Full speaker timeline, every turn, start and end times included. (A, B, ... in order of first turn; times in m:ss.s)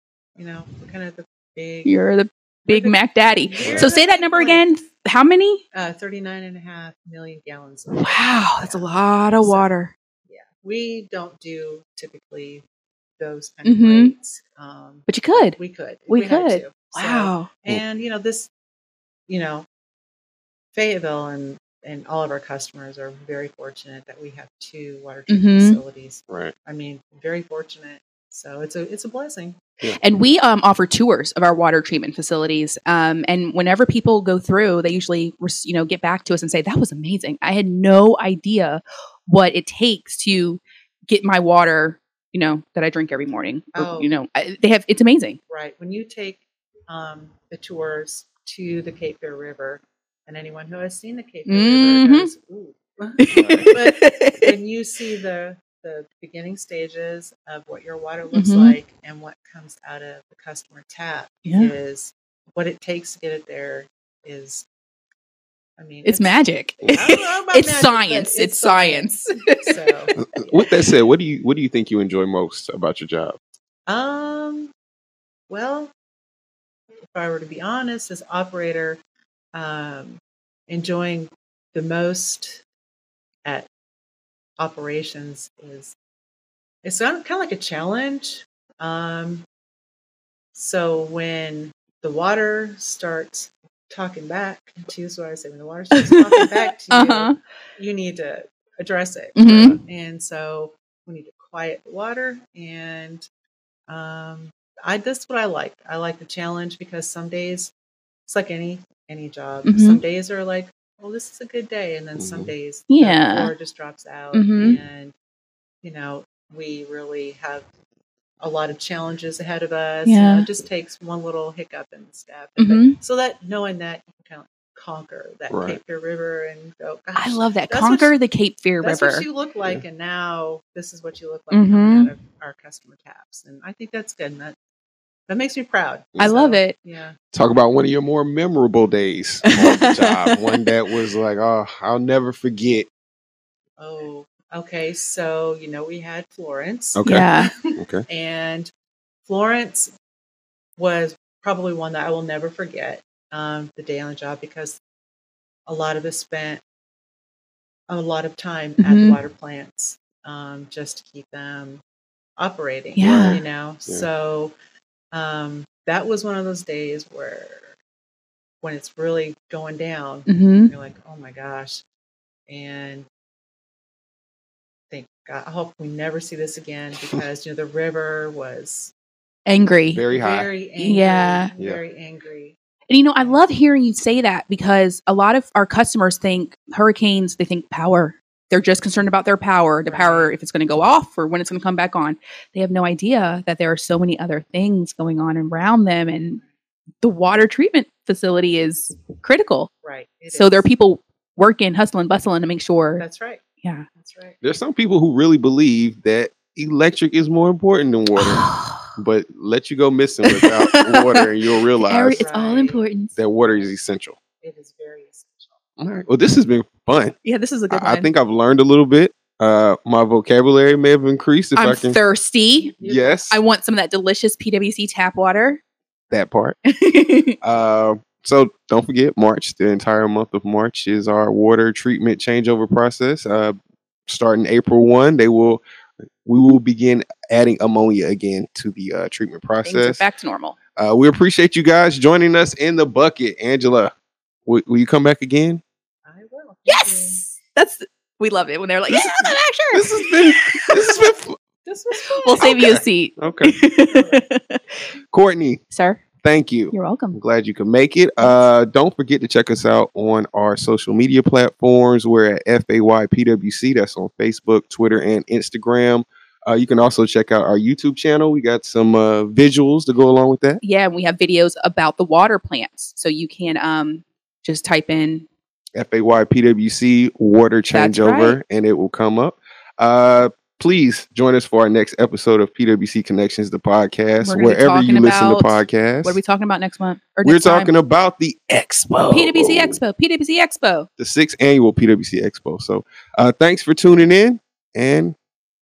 0:00.4-0:01.9 A
0:01.8-0:05.6 B
0:02.7-0:04.7 A
0:03.6-0:03.9 C
0:05.7-0:12.6 A
0:07.9-0:09.9 B
0:13.2-0:18.5 A
0:13.6-0:14.1 B
0:15.1-0:15.6 B
0:16.1-0:17.5 B
0:19.3-0:19.7 A
0:20.7-0:29.6 A
0:25.3-0:25.8 B
0:26.3-0:26.5 C
0:30.0-0:45.4 B
0:43.8-0:44.2 A
0:45.5-1:04.7 A
0:51.5-0:52.3 B
0:53.2-0:54.5 B
0:53.3-0:53.7 C
0:58.3-0:58.8 B
1:01.4-1:01.7 B
1:05.8-1:10.7 A
1:06.0-1:09.9 B
1:10.2-1:13.4 C
1:13.9-1:14.7 A
1:15.5-1:15.9 A
1:17.1-1:19.0 A
1:19.5-1:22.6 A
1:24.6-1:26.0 A
1:26.8-1:29.5 A
1:30.5-1:43.2 A
1:35.9-1:37.4 B
1:39.4-1:39.8 B
1:43.9-1:47.7 A
1:48.3-1:55.1 A
1:49.7-1:50.0 B
1:52.2-1:52.5 C
1:52.9-1:53.5 B
1:54.3-1:54.8 B
1:55.8-1:57.7 A
1:58.4-2:08.2 A
2:00.0-2:00.5 B
2:02.6-2:03.0 B
2:05.5-2:05.8 C
2:07.2-2:09.3 B
2:08.8-2:14.6 A
2:11.5-2:12.1 B
2:15.3-2:17.2 A
2:16.2-2:16.8 B
2:17.3-2:22.9 C
2:19.5-2:20.6 B
2:23.8-2:28.7 A
2:27.0-2:28.0 C
2:27.0-2:27.5 B
2:29.3-2:29.9 A
2:30.8-2:34.8 A
2:35.7-2:36.6 A
2:37.9-2:41.8 A
2:38.8-2:39.2 B
2:42.4-2:44.6 A
2:43.0-2:43.4 B
2:43.0-2:44.1 C
2:45.1-2:47.8 A
2:48.6-2:51.8 A
2:50.3-2:50.7 B
2:52.5-2:53.1 A
2:54.9-2:58.9 A
2:59.5-3:00.1 B
2:59.9-3:00.5 C
3:00.1-3:02.6 A
3:00.8-3:01.5 B
3:02.9-3:16.4 B
3:09.9-3:10.4 A
3:17.0-3:19.7 B
3:19.8-3:20.7 A
3:20.3-3:23.0 B
3:23.0-3:23.4 A
3:23.9-3:24.4 A
3:24.4-3:32.2 C
3:28.2-3:28.9 B
3:30.3-3:31.3 B
3:31.8-3:33.2 B
3:32.1-3:33.8 A
3:33.2-3:34.2 C
3:34.4-3:35.6 A
3:35.8-3:37.2 C
3:37.2-3:38.1 B
3:37.7-3:42.0 C
3:41.6-3:42.8 B
3:42.6-3:43.4 A
3:42.8-3:43.4 C
3:43.3-3:45.6 B
3:46.1-3:46.6 C
3:46.7-3:47.4 B
3:47.4-3:55.6 C
3:56.2-4:00.0 C
3:59.6-4:00.6 B
4:00.8-4:03.9 C
4:04.5-4:05.6 C
4:06.0-4:07.2 A
4:06.7-4:11.1 B
4:08.9-4:11.4 C
4:11.6-4:12.6 A
4:12.0-4:14.8 B
4:12.4-4:13.5 C
4:13.8-4:14.2 A
4:15.1-4:15.6 C
4:15.7-4:16.0 B
4:16.2-4:30.6 C
4:16.7-4:17.2 B
4:18.2-4:18.5 B
4:30.6-4:35.3 B
4:35.8-4:46.2 C
4:37.7-4:38.4 B
4:44.2-4:47.7 B
4:47.2-4:49.8 C
4:49.1-4:50.9 B
4:51.0-4:55.2 C